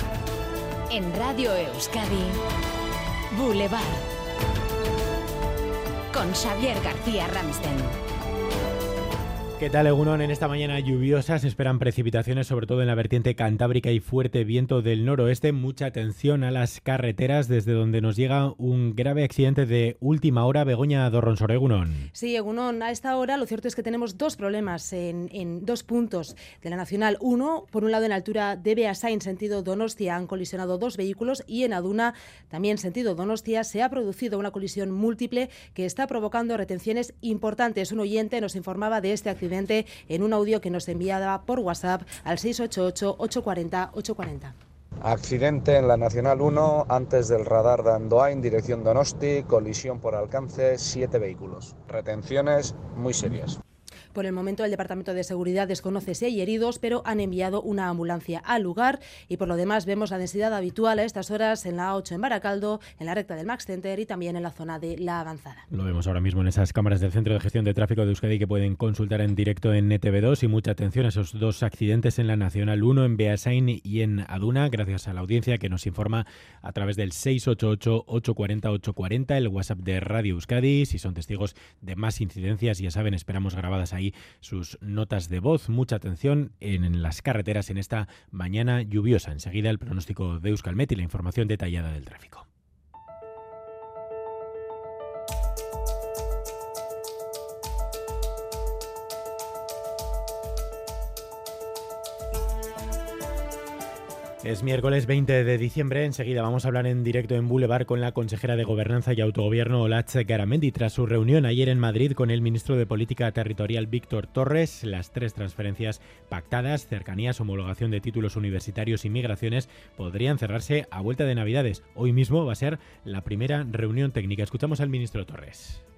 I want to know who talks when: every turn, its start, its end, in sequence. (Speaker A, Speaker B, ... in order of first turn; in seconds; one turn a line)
Speaker A: 0.9-2.3
Speaker A: 3.3-4.0
Speaker A: 6.1-7.9
Speaker B: 9.6-22.1
Speaker C: 22.1-44.5
Speaker D: 45.0-53.6
Speaker C: 54.1-65.7
Speaker B: 65.7-92.4
Speaker B: 104.4-125.8